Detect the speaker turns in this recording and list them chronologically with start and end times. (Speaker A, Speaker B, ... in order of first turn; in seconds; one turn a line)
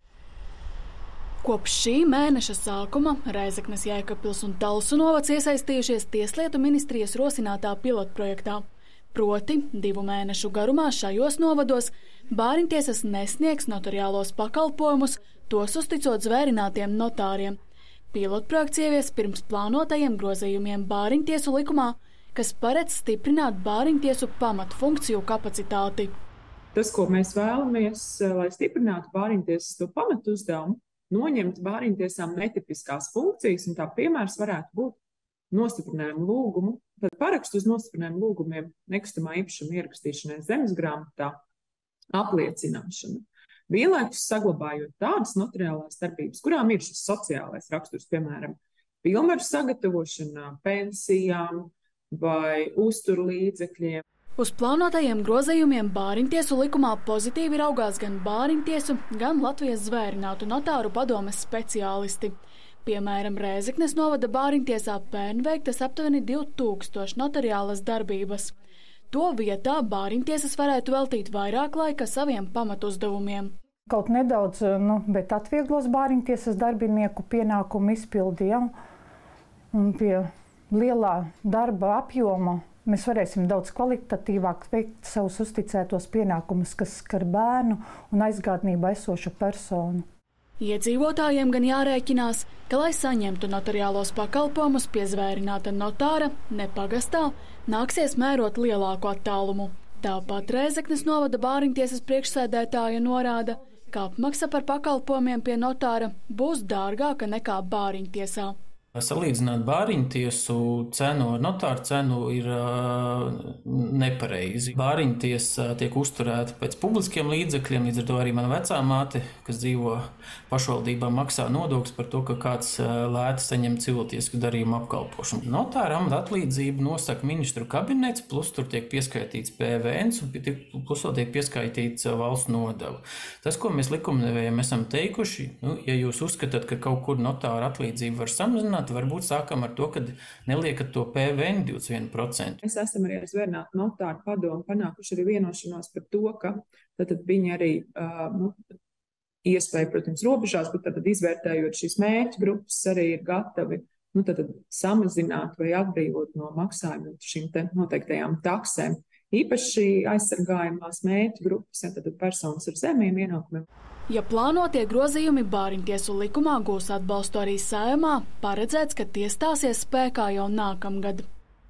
Speaker A: 1.4-17.6
Speaker A: 18.1-26.1
Speaker B: 26.8-35.0
Speaker B: 35.5-41.4
Speaker B: 42.1-54.0
Speaker A: 54.4-68.5
Speaker A: 69.1-73.5
Speaker C: 73.9-78.7
Speaker C: 79.7-90.0
Speaker A: 90.6-108.5
Speaker D: 109.0-142.6
Speaker B: 142.6-148.6
Speaker B: 149.4-163.7
Speaker A: 164.1-171.3